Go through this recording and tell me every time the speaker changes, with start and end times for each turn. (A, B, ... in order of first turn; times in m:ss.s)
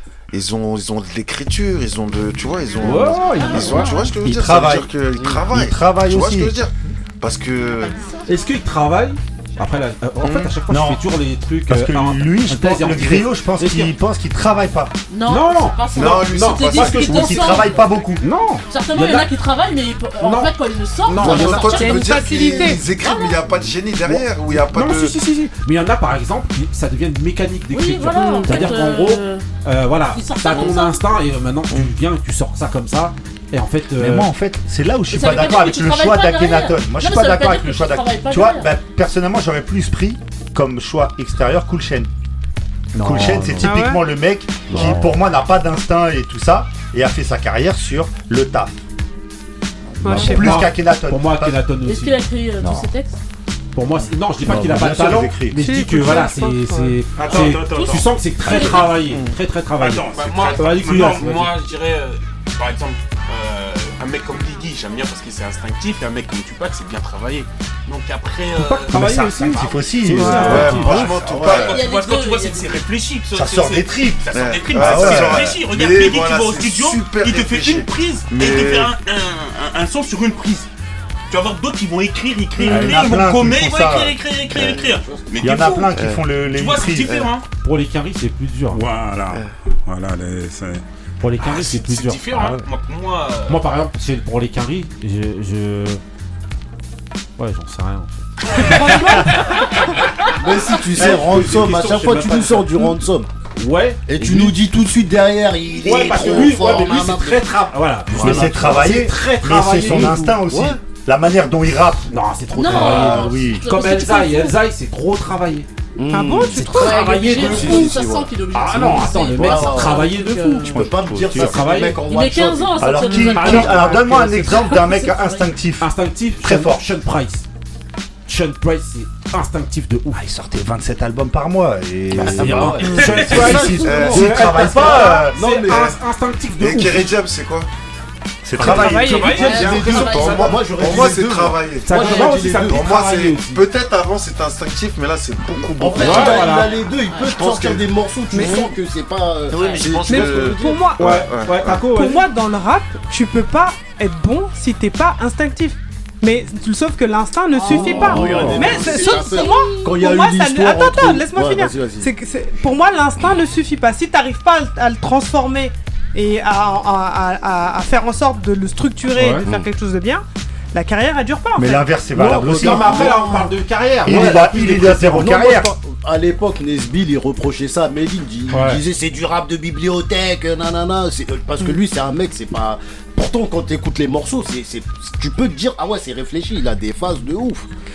0:00.3-0:08.0 A
0:02.8-0:03.9 B
0:03.4-0:04.1 C
0:04.2-0:04.9 D
0:05.4-0:06.6 D
0:07.8-0:08.2 C
0:08.3-0:13.9 B
0:10.2-0:10.5 A
0:10.7-0:11.0 D
0:11.7-0:14.9 D
0:15.1-0:18.0 C
0:15.3-0:17.2 B
0:15.9-0:17.5 A
0:17.0-0:18.2 D
0:18.2-0:19.3 B
0:18.7-0:22.3 C
0:20.2-0:20.5 B
0:21.1-0:21.8 B
0:21.1-0:25.1 A
0:21.7-0:22.8 E
0:22.9-0:23.5 C
0:24.7-0:34.3 B
0:27.7-0:29.5 C
0:28.2-0:28.7 E
0:30.0-0:31.0 C
0:34.0-0:42.1 D
0:35.1-0:38.8 C
0:43.0-0:43.8 B
0:43.0-0:48.8 D
0:43.6-0:44.0 E
0:44.7-0:45.1 F
0:44.7-0:45.1 B
0:50.0-0:50.6 E
0:50.0-0:51.6 D
0:50.0-0:52.8 B
0:51.8-0:53.2 C
0:53.8-1:01.6 B
0:54.4-0:55.7 D
0:55.6-0:57.0 E
0:57.2-0:58.9 G
0:57.4-0:59.0 C
0:59.1-0:59.4 A
0:59.8-1:01.3 G
1:00.1-1:20.7 H
1:08.6-1:11.2 B
1:08.9-1:10.8 D
1:10.3-1:11.8 A
1:11.5-1:12.8 C
1:13.3-1:15.6 D
1:14.3-1:18.9 A
1:21.3-1:27.4 H
1:22.6-1:24.7 D
1:25.4-1:27.3 D
1:25.9-1:26.3 A
1:27.6-1:28.8 B
1:28.7-1:30.8 G
1:31.2-1:32.6 B
1:31.4-1:33.7 H
1:33.5-1:36.0 B
1:37.4-1:39.3 B
1:38.5-1:39.6 E
1:40.4-1:43.3 F
1:41.0-1:43.0 B
1:41.0-1:41.4 D
1:43.6-1:44.6 B
1:44.1-1:50.8 F
1:45.8-1:50.4 B
1:46.1-1:46.8 D
1:48.2-1:52.1 D
1:52.1-1:55.7 B
1:52.6-1:54.6 C
1:52.6-1:53.6 D
1:56.0-1:58.2 F
1:56.1-1:57.0 E
1:56.7-2:00.9 C
1:56.7-1:57.9 B
1:57.4-1:58.2 A
1:58.5-2:02.0 B
1:59.4-2:00.1 F
2:00.6-2:03.2 F
2:00.7-2:01.6 D
2:01.9-2:05.6 C
2:02.8-2:05.9 D
2:03.4-2:04.7 B
2:05.8-2:07.5 B
2:06.4-2:06.8 D
2:08.3-2:10.2 B
2:10.2-2:15.4 D
2:12.1-2:16.0 F
2:12.2-2:17.1 B
2:12.9-2:13.6 H
2:13.6-2:14.1 C
2:13.8-2:14.7 A
2:16.6-2:17.7 A
2:18.4-2:19.4 D
2:18.6-2:19.4 E
2:18.6-2:20.2 H
2:18.6-2:20.8 B
2:19.3-2:20.4 C
2:19.5-2:26.6 A
2:20.2-2:22.8 F
2:21.8-2:23.6 B
2:25.8-2:30.7 F
2:26.0-2:26.7 B
2:27.1-2:27.5 C
2:27.2-2:28.7 A
2:28.3-2:28.6 E
2:29.5-2:30.0 C
2:29.6-2:31.9 A
2:29.6-2:30.2 H
2:30.0-2:31.0 E
2:31.0-2:32.3 B
2:31.9-2:52.0 E
2:37.6-2:42.1 F
2:37.8-2:38.6 B
2:38.6-2:39.6 C
2:49.2-2:49.4 B
2:49.4-2:49.7 F
2:51.6-2:53.4 D
2:52.2-2:55.4 B
2:52.2-2:53.4 F
2:54.0-2:55.7 D
2:54.1-3:07.7 F
2:58.5-2:58.8 B